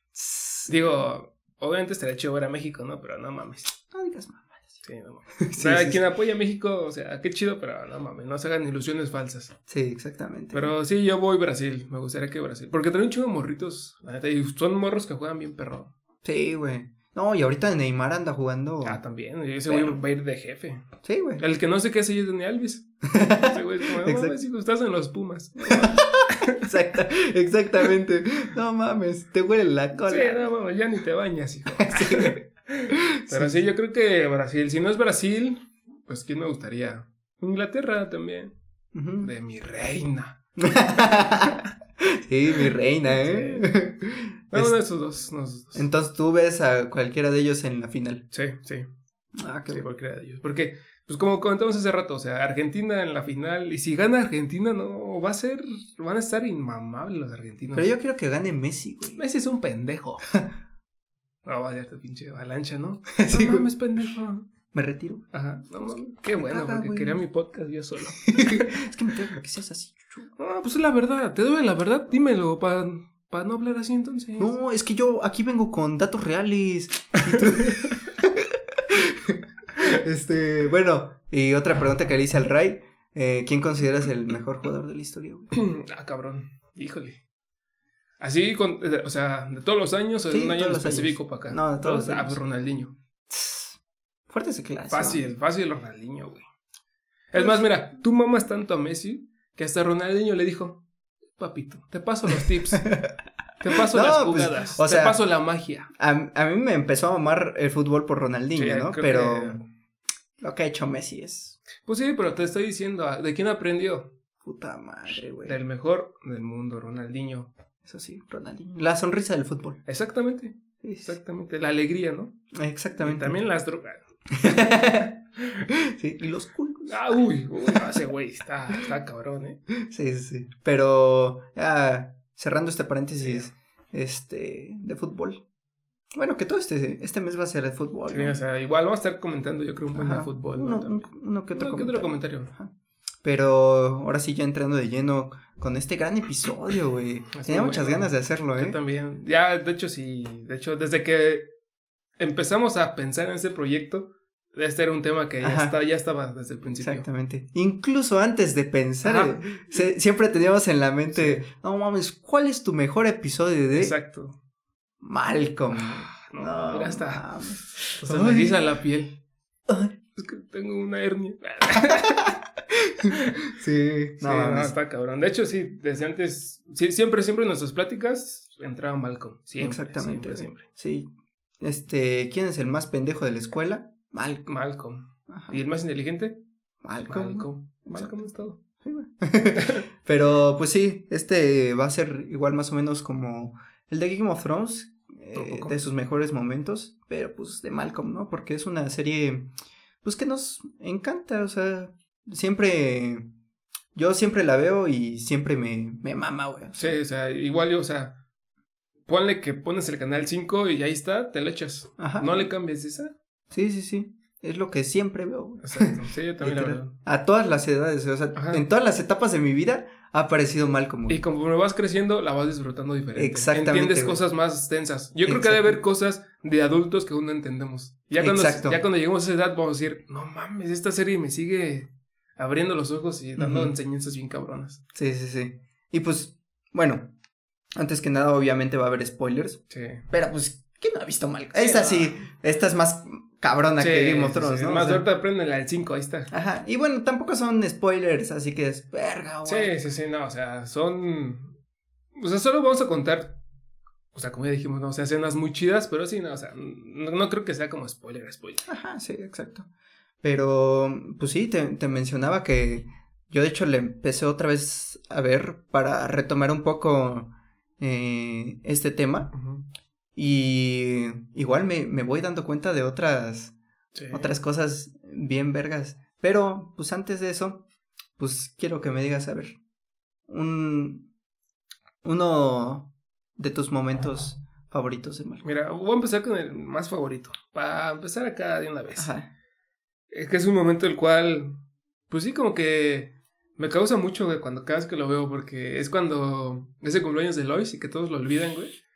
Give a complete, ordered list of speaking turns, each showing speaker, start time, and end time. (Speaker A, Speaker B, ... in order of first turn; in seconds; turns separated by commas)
Speaker A: 0.1-0.7, Speaker B: 0.7-3.7, Speaker A: 3.9-4.8, Speaker B: 4.8-9.5, Speaker A: 5.4-6.0, Speaker A: 9.7-10.7, Speaker B: 10.5-15.9, Speaker A: 16.2-19.0, Speaker B: 18.8-20.9, Speaker A: 19.7-20.0, Speaker A: 21.0-21.4, Speaker B: 21.4-26.0, Speaker A: 23.1-24.4, Speaker A: 25.6-30.5, Speaker B: 30.0-38.5, Speaker A: 31.8-33.6, Speaker A: 38.9-39.3, Speaker B: 39.2-40.4, Speaker A: 40.6-44.7, Speaker B: 41.0-41.3, Speaker B: 42.6-43.7, Speaker B: 44.5-45.8, Speaker A: 45.7-48.2, Speaker B: 48.3-48.9, Speaker A: 49.4-49.8, Speaker B: 49.7-57.9, Speaker A: 57.7-59.2, Speaker B: 59.1-60.2, Speaker B: 61.4-64.5, Speaker A: 63.1-63.7, Speaker A: 64.7-65.3, Speaker B: 65.3-68.7, Speaker A: 66.3-67.2, Speaker A: 68.2-70.3, Speaker B: 70.4-74.5, Speaker A: 74.4-85.6, Speaker B: 77.3-77.9, Speaker B: 85.5-87.2, Speaker B: 88.2-92.9, Speaker A: 90.3-92.4, Speaker A: 93.3-93.8, Speaker A: 94.3-95.2, Speaker B: 94.9-96.4, Speaker B: 97.3-100.8, Speaker B: 101.4-102.9, Speaker A: 102.8-103.1, Speaker B: 103.6-105.9, Speaker A: 103.9-105.2, Speaker A: 106.0-109.6, Speaker B: 108.5-109.6, Speaker A: 110.4-111.6, Speaker B: 111.8-114.1, Speaker A: 114.4-115.6, Speaker B: 115.4-117.5, Speaker A: 117.8-119.8, Speaker B: 119.8-122.3, Speaker A: 120.8-121.2, Speaker A: 122.5-123.4, Speaker B: 123.0-124.7, Speaker A: 124.3-127.9, Speaker B: 126.9-129.6, Speaker A: 129.8-135.4, Speaker B: 133.2-133.5, Speaker A: 136.2-138.4, Speaker B: 138.1-142.5, Speaker A: 139.9-142.7, Speaker A: 143.2-148.8, Speaker B: 147.3-151.5, Speaker B: 152.2-157.1, Speaker A: 155.4-155.8, Speaker A: 156.8-163.9, Speaker B: 159.0-159.9, Speaker B: 161.1-161.4, Speaker B: 163.8-164.4, Speaker A: 165.0-168.7, Speaker B: 165.7-167.3, Speaker B: 168.0-169.2, Speaker A: 169.7-169.9, Speaker B: 170.1-172.3, Speaker A: 171.8-174.7, Speaker B: 174.2-180.6, Speaker A: 179.6-181.1, Speaker A: 181.6-184.5, Speaker B: 184.4-186.4, Speaker A: 185.3-185.6, Speaker A: 186.8-203.2, Speaker B: 187.1-188.6, Speaker B: 195.3-195.8, Speaker A: 203.9-207.0, Speaker B: 206.8-208.2, Speaker B: 209.1-213.1, Speaker A: 212.0-212.4, Speaker A: 213.5-221.2, Speaker B: 215.6-216.9, Speaker B: 218.3-218.6, Speaker B: 221.1-234.8, Speaker A: 223.1-224.2, Speaker A: 225.2-225.8, Speaker A: 228.1-228.8, Speaker A: 233.4-233.7, Speaker A: 234.9-237.1, Speaker A: 237.8-245.1, Speaker B: 239.7-240.0, Speaker B: 241.5-242.2, Speaker B: 243.8-246.3, Speaker A: 246.3-249.8, Speaker B: 249.4-251.5, Speaker B: 252.1-253.3, Speaker B: 254.1-258.7, Speaker A: 258.7-259.7, Speaker A: 260.2-269.3, Speaker B: 269.3-269.6, Speaker A: 270.1-273.5, Speaker B: 273.9-274.3, Speaker A: 274.1-277.6, Speaker A: 278.2-279.6, Speaker A: 280.3-281.1, Speaker A: 282.0-285.4, Speaker B: 285.4-289.1, Speaker A: 288.9-289.3, Speaker B: 290.1-291.6, Speaker B: 292.1-298.8